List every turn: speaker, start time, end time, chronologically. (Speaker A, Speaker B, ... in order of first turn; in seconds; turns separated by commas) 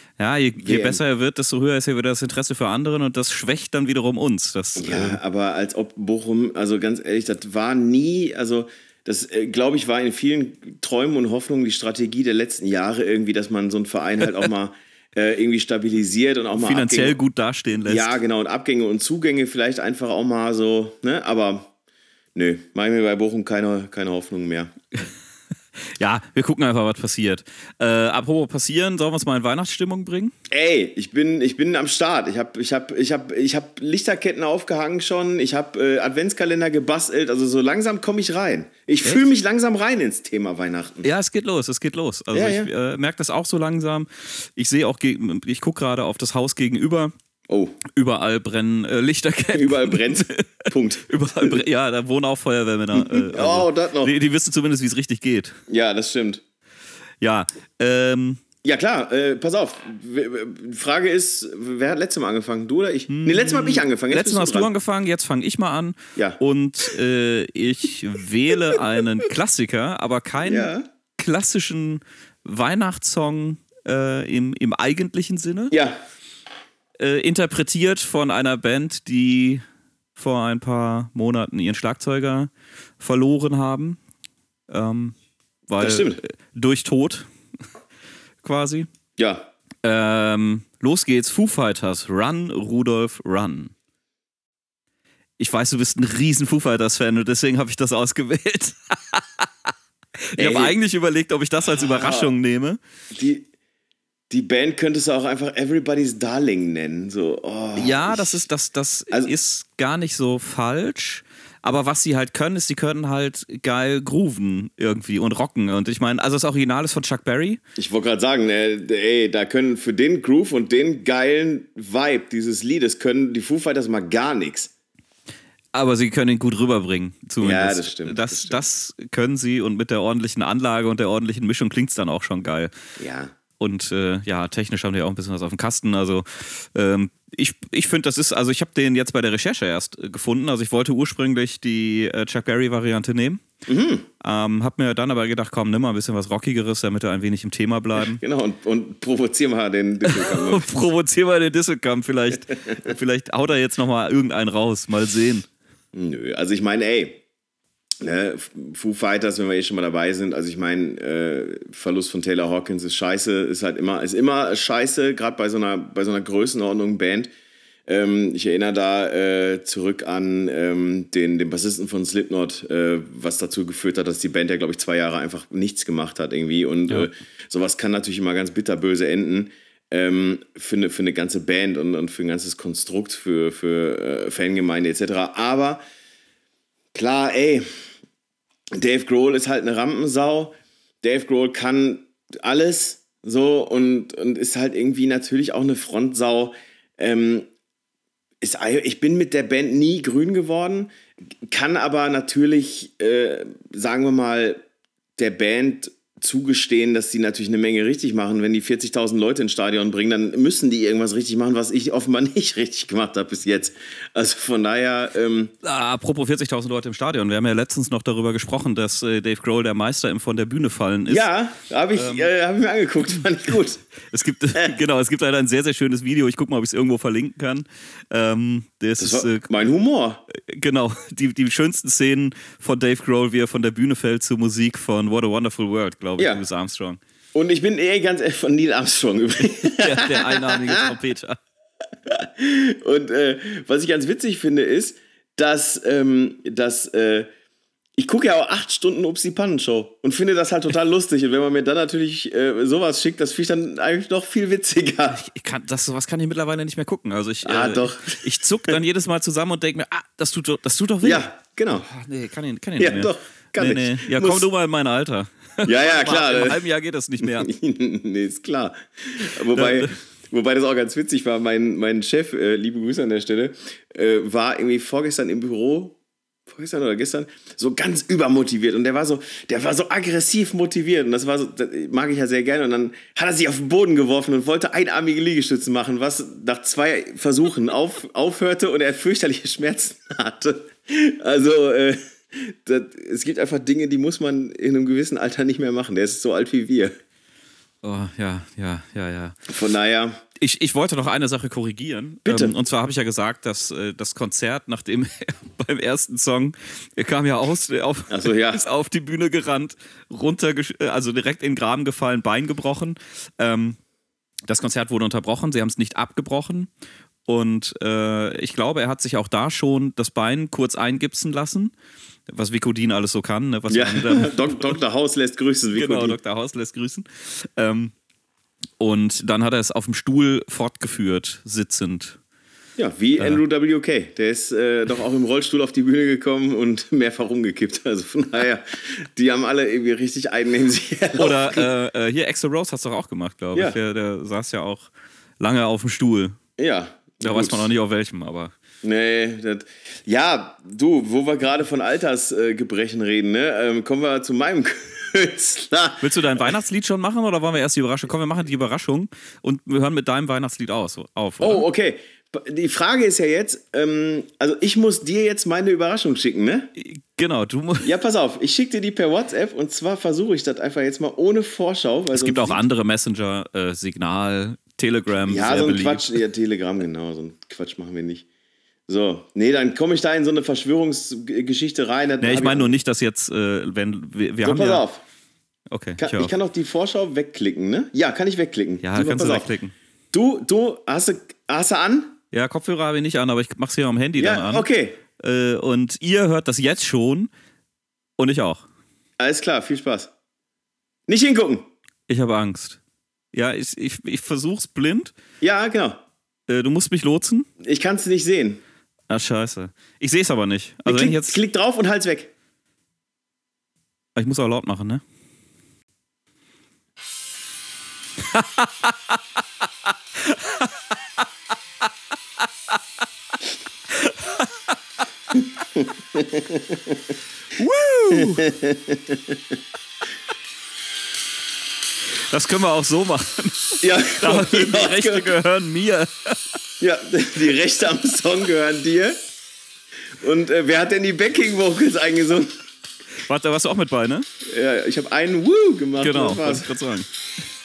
Speaker A: 0.2-5.2, Speaker B: 0.6-1.0, Speaker B: 4.8-17.2, Speaker A: 16.6-18.2, Speaker B: 17.9-21.7, Speaker B: 22.4-24.7, Speaker A: 25.9-30.3, Speaker B: 30.5-41.1, Speaker A: 41.0-47.1, Speaker B: 42.3-42.7, Speaker B: 47.5-47.8, Speaker A: 47.9-55.6, Speaker B: 49.5-51.6, Speaker B: 53.0-54.2, Speaker B: 55.7-56.4, Speaker A: 57.2-58.4, Speaker B: 58.6-64.7, Speaker A: 63.1-75.8, Speaker B: 70.4-70.8, Speaker B: 75.7-76.0, Speaker A: 77.0-79.6, Speaker A: 80.2-84.0, Speaker A: 84.7-85.2, Speaker A: 85.7-87.3, Speaker B: 85.8-86.2, Speaker A: 88.4-88.9, Speaker B: 89.2-89.5, Speaker A: 89.8-93.7, Speaker A: 95.4-99.5, Speaker A: 100.2-102.8, Speaker B: 100.4-100.8, Speaker B: 101.6-102.3, Speaker B: 103.1-103.5, Speaker B: 104.3-108.4, Speaker A: 107.8-117.6, Speaker B: 117.8-124.7, Speaker A: 125.7-132.7, Speaker B: 127.4-128.6, Speaker B: 133.0-133.3, Speaker A: 133.6-143.4, Speaker B: 143.7-144.1, Speaker A: 144.2-148.2, Speaker B: 148.0-150.7, Speaker A: 150.0-155.5, Speaker B: 155.9-157.2, Speaker B: 158.0-167.3, Speaker B: 167.9-185.8, Speaker B: 186.9-187.7, Speaker B: 188.7-197.5, Speaker B: 198.4-200.9, Speaker B: 201.5-204.6, Speaker B: 205.2-215.5, Speaker A: 215.6-221.3, Speaker B: 221.1-223.8, Speaker A: 221.9-222.3, Speaker A: 224.1-229.5, Speaker B: 229.0-230.3, Speaker A: 230.3-237.0, Speaker B: 236.2-236.4, Speaker B: 237.3-240.9, Speaker A: 239.8-241.4, Speaker B: 242.1-247.3, Speaker B: 248.0-255.2, Speaker A: 255.1-267.5, Speaker B: 257.4-258.8, Speaker B: 261.0-261.9, Speaker B: 262.8-264.5, Speaker B: 265.6-266.6, Speaker B: 267.2-296.9, Speaker A: 269.5-269.9, Speaker A: 297.8-299.4, Speaker B: 299.5-300.2, Speaker A: 300.4-313.8, Speaker B: 302.2-302.6, Speaker B: 308.1-308.6, Speaker A: 314.5-316.7, Speaker A: 317.3-321.7, Speaker A: 322.3-324.8, Speaker B: 323.7-326.2, Speaker A: 325.7-327.9, Speaker A: 328.8-332.2, Speaker B: 332.8-341.7, Speaker A: 341.2-346.4, Speaker B: 346.6-347.7, Speaker A: 347.2-348.5, Speaker B: 348.8-356.6, Speaker A: 356.0-361.6, Speaker B: 361.4-366.7, Speaker A: 366.8-367.9, Speaker B: 367.8-372.6, Speaker A: 372.1-376.2, Speaker B: 375.3-378.3, Speaker B: 378.9-382.8, Speaker A: 382.2-384.9, Speaker B: 384.4-385.0, Speaker A: 385.7-386.3, Speaker B: 386.0-389.5, Speaker A: 388.8-389.8, Speaker B: 390.1-392.2, Speaker A: 392.3-397.3, Speaker B: 394.2-395.0, Speaker A: 398.2-398.6, Speaker B: 399.2-400.1, Speaker B: 401.1-401.7, Speaker A: 402.1-402.8, Speaker A: 403.3-405.1, Speaker B: 405.4-406.0, Speaker A: 406.5-407.5, Speaker B: 407.6-408.6, Speaker A: 409.1-411.4, Speaker B: 410.9-412.3, Speaker A: 414.2-415.0, Speaker A: 418.3-419.2, Speaker A: 420.2-420.7, Speaker A: 423.9-424.5, Speaker B: 425.3-427.1, Speaker A: 427.6-428.5, Speaker B: 428.1-429.6, Speaker A: 432.3-436.4, Speaker B: 433.8-435.3, Speaker B: 436.8-439.2, Speaker B: 440.2-442.6, Speaker A: 443.2-444.3, Speaker B: 444.4-446.7, Speaker A: 446.0-447.1